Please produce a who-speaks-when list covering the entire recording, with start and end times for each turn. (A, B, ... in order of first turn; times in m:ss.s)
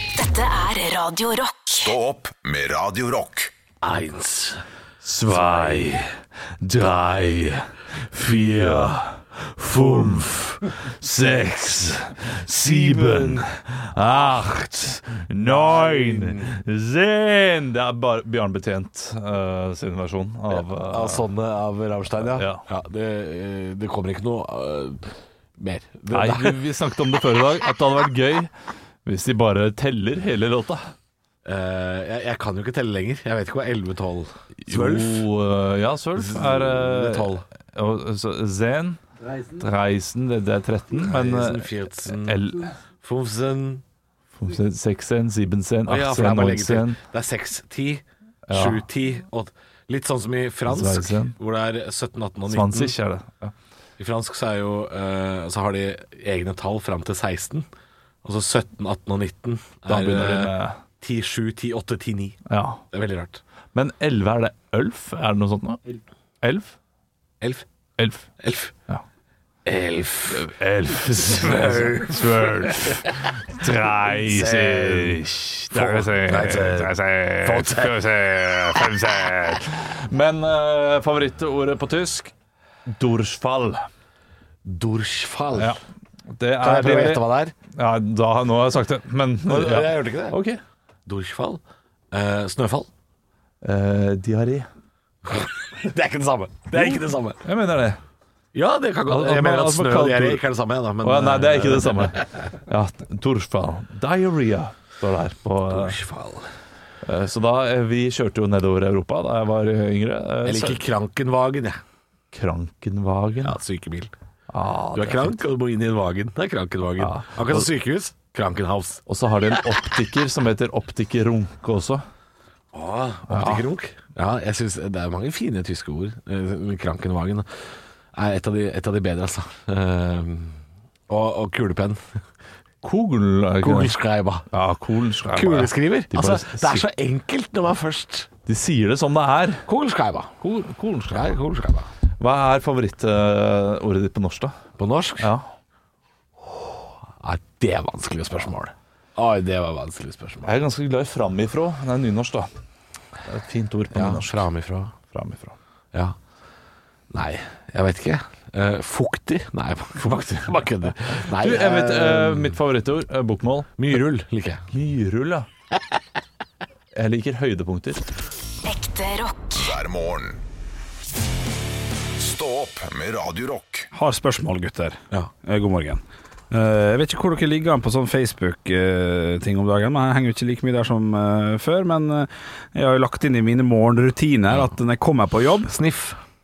0:00.1-0:01.9 A
0:01.7-0:03.5 B
0:03.8-0:04.6 C
0:05.0-0:06.1 D
0:05.2-0:06.0 C
0:06.6-0:21.2 D
0:08.4-0:08.9 C
0:09.7-0:10.6 C
0:12.6-0:13.5 C
0:14.1-0:16.6 C
0:20.5-0:26.6 C
0:22.2-0:22.6 D
0:26.1-0:28.5 D
0:29.0-0:30.9 D
0:31.4-0:35.3 C
0:34.6-0:39.0 D
0:36.2-0:37.4 C
0:39.6-0:42.8 D
0:41.0-0:43.8 C
0:44.4-0:47.0 D
0:45.9-0:53.0 C
0:48.5-0:48.8 D
0:50.7-0:51.4 D
0:52.5-0:53.5 D
0:54.0-0:57.7 C
0:58.2-1:03.4 C
0:59.9-1:00.8 D
1:02.5-1:02.8 D
1:03.7-1:05.8 D
1:06.4-1:06.8 D
1:07.4-1:07.7 C
1:08.0-1:08.3 D
1:08.4-1:08.7 C
1:09.6-1:13.1 C
1:10.3-1:22.3 D
1:14.0-1:15.2 C
1:15.7-1:18.0 C
1:22.9-1:23.9 D
1:24.6-1:25.8 C
1:26.4-1:30.6 D
1:26.6-1:27.6 C
1:29.4-1:30.4 C
1:31.1-1:32.9 C
1:33.6-1:34.7 D
1:35.2-1:37.4 C
1:36.7-1:38.0 D
1:38.5-1:42.5 C
1:39.1-1:40.4 D
1:41.0-1:46.0 D
1:45.7-1:46.5 C
1:47.0-1:50.8 D
1:50.4-1:51.8 C
1:52.3-1:53.6 D
1:53.4-1:54.1 C
1:54.5-1:55.4 D
1:54.9-1:59.7 C
1:57.0-1:57.7 D
1:59.1-2:02.0 D
2:02.7-2:07.5 C
2:03.3-2:03.6 D
2:08.1-2:10.6 C
2:11.1-2:12.2 C
2:12.8-2:13.9 D
2:13.6-2:14.4 C
2:14.5-2:16.8 D
2:15.3-2:18.3 C
2:18.5-2:19.6 D
2:19.7-2:20.4 C
2:20.4-2:21.4 D
2:21.1-2:21.9 C
2:22.2-2:24.6 D
2:24.8-2:25.3 C
2:25.2-2:25.5 D
2:27.2-2:30.5 C
2:30.4-2:32.5 D
2:33.3-2:34.4 D
2:33.9-2:34.9 C
2:35.1-2:35.6 D
2:37.1-2:42.6 C
2:41.4-2:44.0 D
2:43.8-2:44.7 C
2:44.7-2:45.5 D
2:46.9-2:48.0 D
2:48.6-2:49.7 A
2:49.6-2:50.4 B
2:52.2-2:53.9 B
2:53.9-3:05.7 E
3:05.7-3:06.2 C